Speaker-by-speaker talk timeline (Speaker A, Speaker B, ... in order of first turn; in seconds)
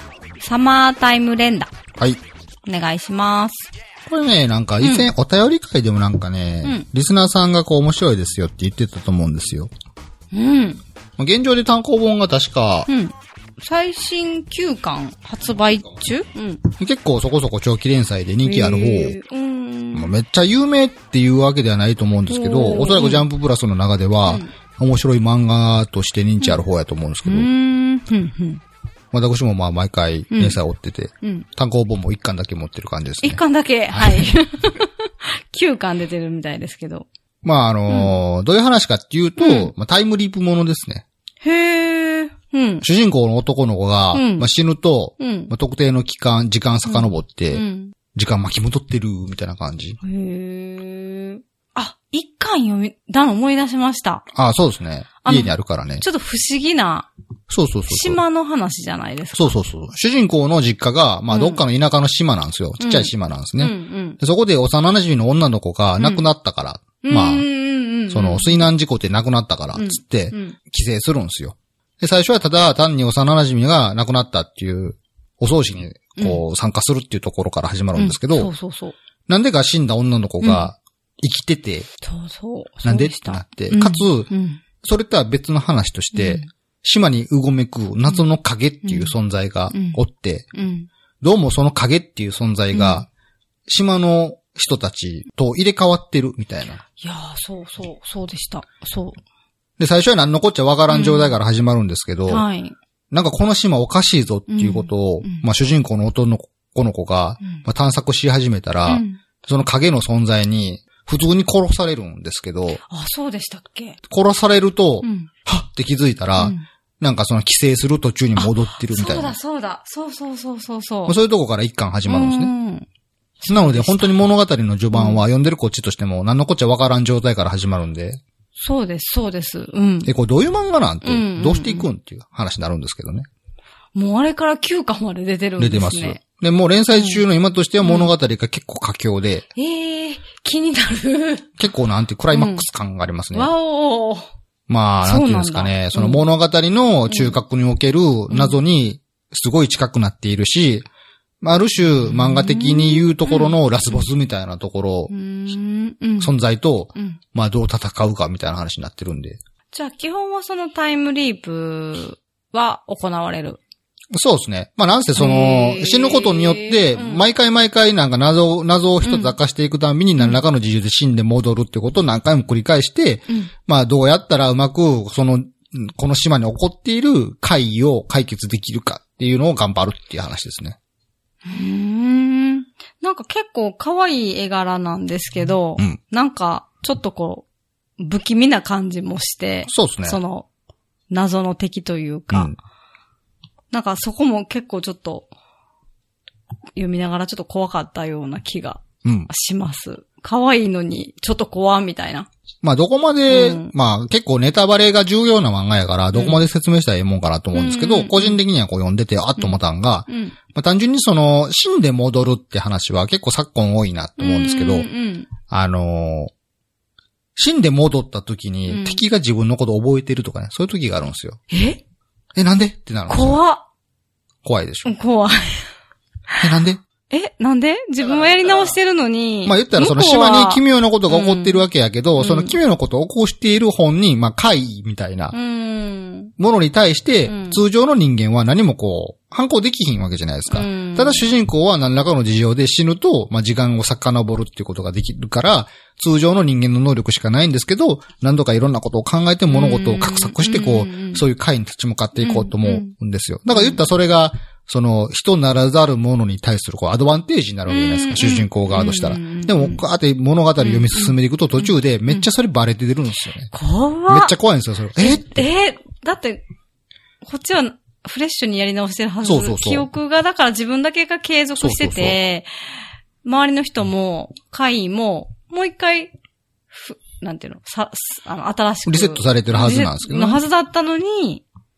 Speaker A: 0.4-1.7, 2.6-3.7, 4.8-5.1, 10.3-10.8, 12.9-16.7, 18.4-20.1, 22.3-23.2, 24.2-24.5, 26.4-26.7, 27.2-28.6, 30.3-30.6, 33.2-37.1, 37.9-38.1, 39.4-39.7, 41.4-42.9, 44.1-44.5, 45.2-45.5, 46.8-47.9, 50.0-54.2, 55.2-57.1, 57.9-59.6, 61.3-61.6, 62.8-64.2, 66.0-66.3, 67.0-68.7, 69.7-70.5, 76.2-76.4, 77.9-78.9, 80.4-80.7, 82.0-84.6, 86.1-86.5, 88.8-89.1, 89.7-90.0, 90.5-90.9, 92.7-93.0, 97.0-99.2, 100.9-101.4, 102.3-102.7, 104.5-105.5, 108.8-109.2, 112.8-114.0, 115.0-115.3, 116.4-116.6, 118.4-121.2, 122.0-122.8, 123.4-124.2, 124.9-125.2, 128.6-130.1, 131.0-131.9, 133.9-136.2, 136.9-137.2, 137.8-138.1, 139.6-141.5, 142.3-142.7, 143.3-144.3, 145.0-146.2, 147.1-147.4, 148.3-148.6, 152.0-154.1, 155.1-156.4, 156.9-157.2, 159.7-163.6, 165.1-167.2, 169.0-169.3, 181.4-187.4, 188.0-190.5, 191.1-192.5, 193.7-195.3, 196.8-202.3, 203.3-203.7, 206.1-206.4, 207.5-208.4, 209.4-210.4, 214.2-215.3, 218.7-219.0, 221.5-221.8, 223.1-223.6, 224.8-225.7, 227.1-232.6, 235.3-236.3, 237.2-237.6, 240.5-241.3, 249.5-251.2, 252.2-252.9, 253.5-253.8, 257.7-259.8, 260.6-262.3, 263.5-264.3, 264.9-266.4, 267.2-272.5, 273.2-276.1, 276.7-281.4
Speaker B: 4.1-9.7, 11.2-12.9, 15.4-15.8, 16.8-19.1, 19.9-27.5, 29.1-34.4, 37.4-41.0, 42.8-47.6, 48.1-50.0, 54.3-56.0, 57.5-58.2, 59.3-67.5, 68.1-78.5, 79.3-81.9, 82.8-84.3, 84.8-90.5, 91.2-93.1, 93.7-96.8, 99.8-102.5, 103.1-112.8, 114.1-119.3, 121.1-122.5, 123.5-128.2, 130.0-133.3, 135.6-139.5, 141.6-143.5, 144.7-150.9, 151.4-155.1, 156.2-159.4, 164.1-180.8, 189.7-190.2, 199.0-199.3, 202.6-214.9, 215.5-216.3, 217.3-221.4, 222.3-223.4, 224.4-224.9, 226.4-226.8, 229.4-235.3, 236.4-263.5, 264.1-265.5, 269.2-269.9, 271.6-272.2, 278.9-280.4